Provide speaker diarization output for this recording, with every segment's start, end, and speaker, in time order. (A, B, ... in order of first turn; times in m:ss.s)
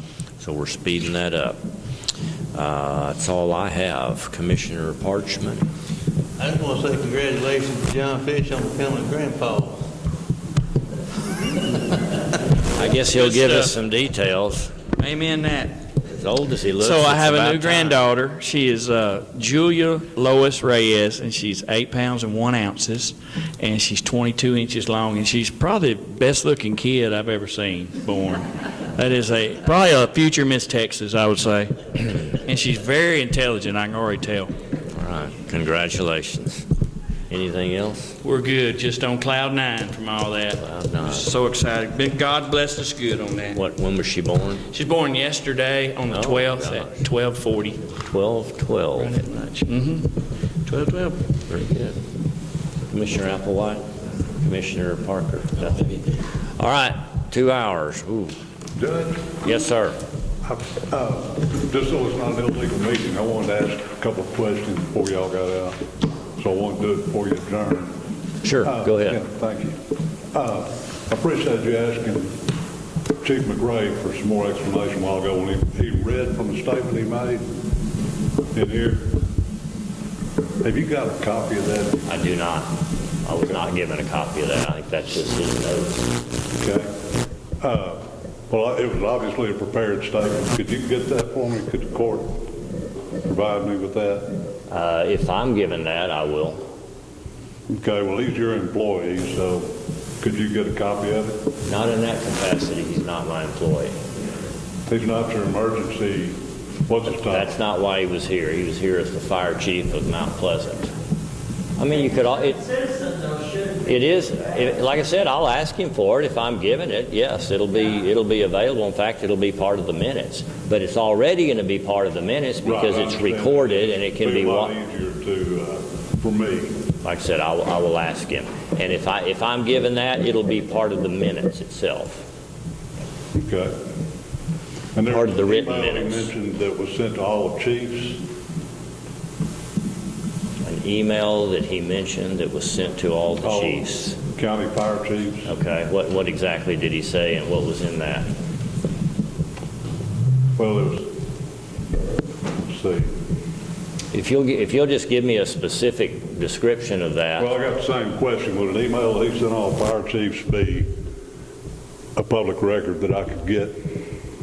0:00.4-0:01.6 A
0:02.5-0:05.7 A
0:06.4-0:09.8 B
0:12.7-0:14.7 A
0:13.1-0:13.7 C
0:15.0-0:15.8 C
0:16.0-0:18.0 A
0:16.8-0:34.5 C
0:34.9-0:36.6 A
0:37.3-0:38.2 A
0:38.2-0:43.6 C
0:40.6-0:41.3 A
0:43.5-0:44.7 A
0:44.7-0:47.8 C
0:46.1-0:47.0 A
0:48.1-0:49.3 A
0:49.0-0:50.1 C
0:50.7-0:51.2 C
0:51.5-0:51.9 A
0:52.9-0:53.9 A
0:54.4-0:58.4 A
0:58.8-0:59.4 D
0:59.4-1:00.0 A
1:00.4-1:05.8 D
1:06.4-1:07.9 D
1:08.4-1:09.2 A
1:08.6-1:09.8 D
1:10.3-1:12.3 D
1:13.2-1:17.4 D
1:18.5-1:19.1 D
1:20.6-1:22.0 D
1:22.0-1:26.0 A
1:26.6-1:26.9 D
1:27.6-1:32.4 D
1:33.3-1:34.3 D
1:34.7-1:36.6 A
1:37.7-1:41.4 D
1:41.6-1:43.9 A
1:44.9-1:47.5 D
1:47.1-1:50.9 A
1:51.8-2:04.7 A
2:02.6-2:06.7 D
2:07.0-2:12.2 A
2:13.3-2:13.7 D
2:15.0-2:18.2 D
2:15.1-2:16.3 A
2:20.6-2:24.2 A
2:23.4-2:25.5 D
2:25.4-2:28.3 A
2:30.6-2:31.1 D
2:32.7-2:33.1 D
2:34.1-2:37.5 A
2:37.4-2:40.9 D
2:42.2-2:43.8 D